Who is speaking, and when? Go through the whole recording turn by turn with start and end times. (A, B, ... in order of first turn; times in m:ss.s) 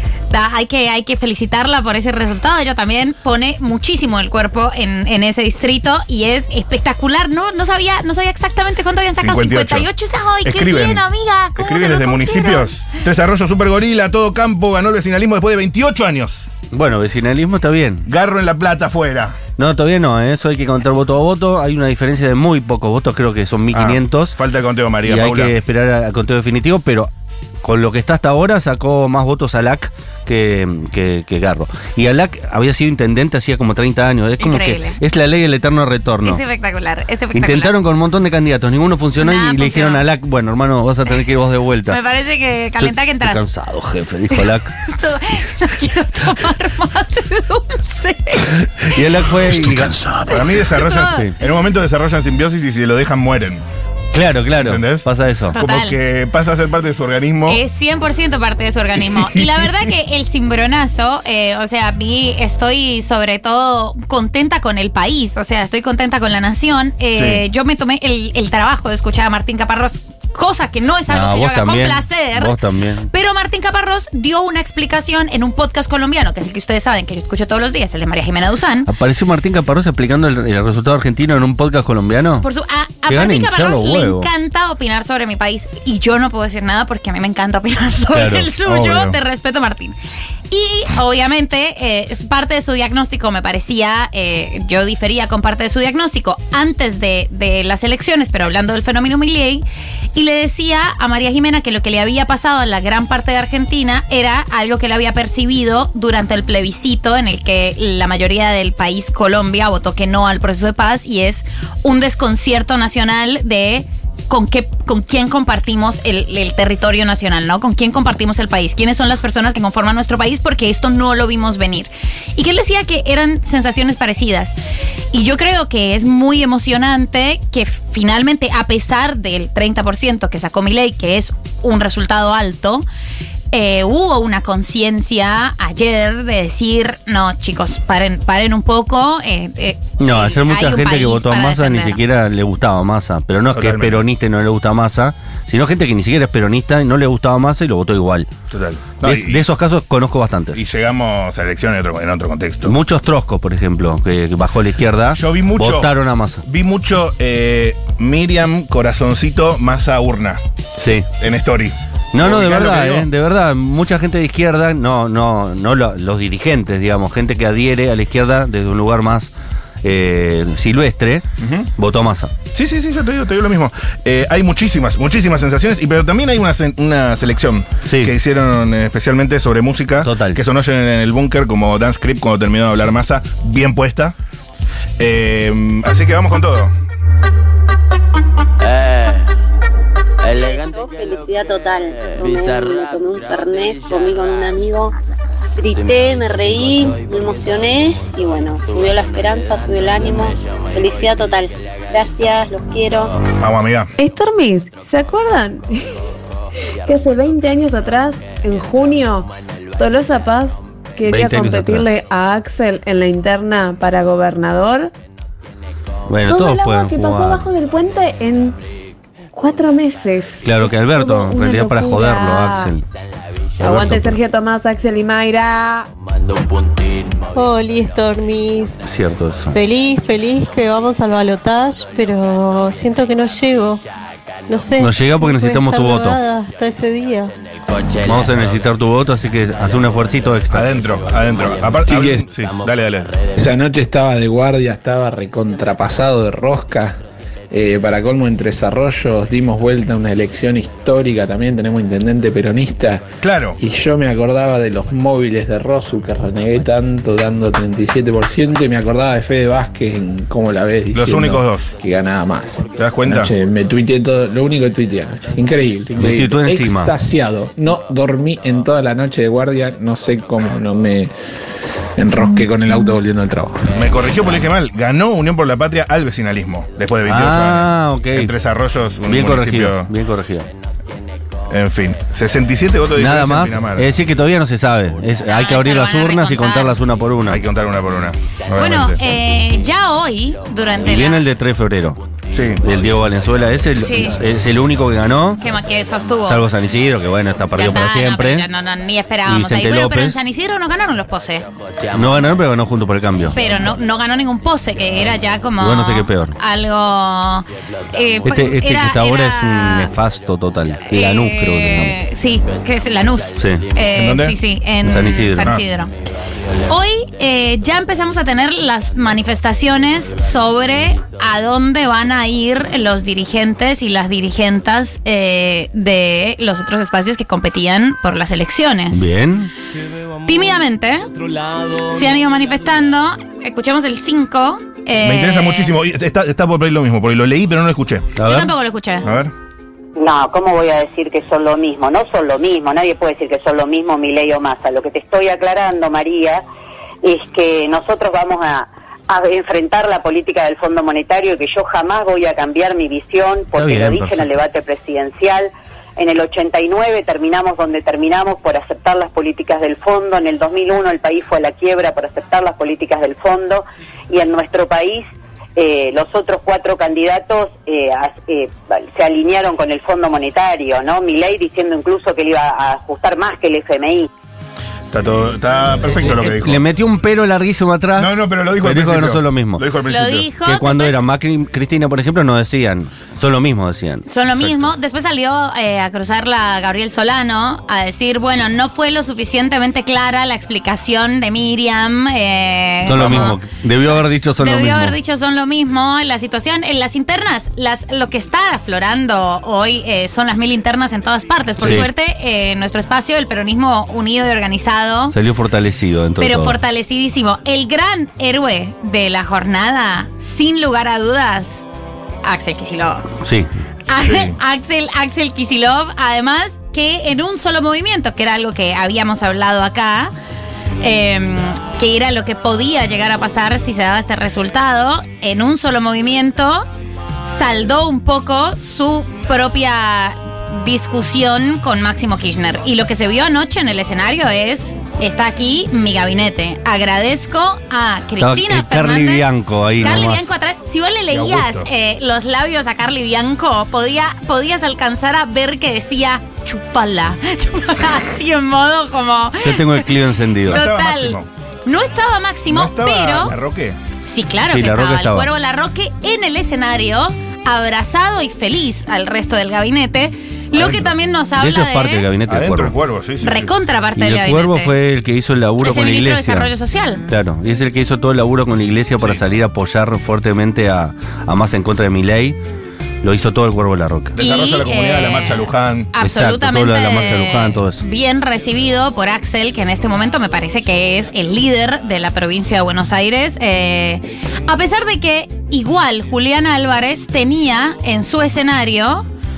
0:00.3-0:12.7 A
0:09.2-0:09.9 B
0:10.4-0:16.5 B
0:16.7-0:18.1 C
0:18.1-0:19.4 B
0:19.6-0:24.4 C
0:23.7-0:25.5 B
0:25.0-0:27.1 C
0:27.6-0:36.4 C
0:34.4-0:35.0 A
0:36.2-0:37.8 A
0:37.3-0:42.0 C
0:39.2-0:40.0 A
0:41.9-0:43.5 A
0:42.8-0:44.7 C
0:44.3-0:48.6 A
0:48.8-0:50.4 C
0:50.3-0:53.6 B
0:50.7-0:51.3 A
0:51.0-0:51.3 C
0:54.1-0:55.6 C
0:54.6-0:57.6 B
0:55.5-0:56.0 A
0:57.4-1:12.6 A
0:59.1-0:59.7 B
1:07.1-1:07.4 B
1:11.1-1:13.1 C
1:13.1-1:18.9 A
1:18.9-1:22.5 C
1:22.4-1:29.9 A
1:23.1-1:24.3 C
1:28.1-1:28.5 C
1:28.6-1:29.2 B
1:30.5-2:04.6 A
2:05.1-2:12.9 A
2:13.5-2:22.0 A
2:20.0-2:28.3 C
2:23.5-2:24.0 B
2:28.5-2:29.4 B
2:29.0-2:30.6 C
2:30.5-2:32.8 B
2:32.6-2:36.4 C
2:35.1-2:40.4 B
2:40.8-2:41.1 C
2:41.2-2:43.1 B
2:42.1-2:49.3 C
2:49.8-2:52.3 C
2:51.4-2:51.7 B
2:52.5-3:04.2 B
2:57.8-2:58.1 C
3:00.0-3:00.4 C
3:05.0-3:06.7 B
3:10.3-3:14.9 D
3:15.6-3:23.2 D
3:23.4-3:23.9 B
3:24.0-3:25.7 E
3:26.8-3:34.9 E
3:31.1-3:31.9 C
3:36.1-3:37.5 C
3:36.2-3:38.6 E
3:39.3-3:42.8 E
3:40.4-3:42.8 C
3:43.6-3:44.2 C
3:43.6-3:45.9 E
3:47.3-3:48.8 F
3:48.8-3:49.6 C
3:49.5-3:53.8 F
3:54.5-3:57.3 F
3:54.8-3:56.2 C
3:58.0-4:00.8 C
4:00.5-4:03.1 B
4:01.8-4:02.2 G
4:03.4-4:07.0 G
4:07.5-4:31.1 G
4:13.2-4:13.6 B
4:20.9-4:21.7 B
4:22.8-4:23.3 B
4:26.0-4:26.9 C
4:32.0-4:33.7 G
4:33.7-4:39.9 B
4:37.0-4:38.3 C
4:39.1-4:40.5 C
4:41.5-4:43.9 B
4:43.0-4:47.4 C
4:45.2-4:46.8 A
4:47.3-4:49.0 B
4:48.6-4:51.2 A
4:50.8-4:52.0 C
4:52.3-4:52.6 B
4:52.6-4:55.4 C
4:53.8-4:54.2 A
4:55.4-4:56.4 A
4:56.2-4:58.5 C
4:57.5-5:01.4 A
4:59.2-5:00.2 C
5:01.9-5:03.4 C
5:03.3-5:09.9 A
5:05.6-5:06.4 C
5:08.2-5:12.0 C
5:10.9-5:15.9 A
5:13.4-5:13.6 C
5:13.9-5:14.4 B
5:14.8-5:15.6 C
5:16.7-5:29.1 A
5:28.9-5:29.5 C
5:30.2-5:31.0 A
5:31.9-5:35.8 A
5:35.0-5:38.2 B
5:38.2-5:38.5 C
5:38.2-5:39.1 A
5:39.0-5:39.3 B
5:40.0-5:46.4 H
5:47.0-6:05.0 H
5:53.5-5:54.3 C
6:05.6-6:14.1 H
6:14.9-6:16.6 B
6:16.0-6:19.6 C
6:18.0-6:20.3 B
6:19.8-6:21.0 A
6:20.4-6:24.7 C
6:24.1-6:45.2 A
6:32.8-6:35.0 C
6:41.6-6:41.9 C
6:45.1-6:46.6 C
6:46.2-6:51.6 A
6:52.2-6:53.1 A
6:53.2-6:53.5 C
6:53.9-7:00.1 A
6:54.0-6:54.4 B
7:00.8-7:06.6 A
7:07.2-7:29.9 A
7:18.2-7:20.3 C
7:21.1-7:21.7 B
7:29.4-7:30.6 C
7:30.5-7:31.3 B
7:30.5-7:33.3 A
7:32.5-7:33.8 B
7:34.0-7:42.1 A
7:34.4-7:35.3 C
7:40.5-7:41.0 B
7:41.4-7:42.7 C
7:42.3-7:43.5 B
7:43.2-7:44.7 A
7:44.0-7:46.5 C
7:45.6-7:47.0 A
7:47.1-7:52.4 C
7:53.0-7:54.2 C
7:54.2-7:55.9 B
7:54.2-8:09.0 A
7:56.0-7:57.8 C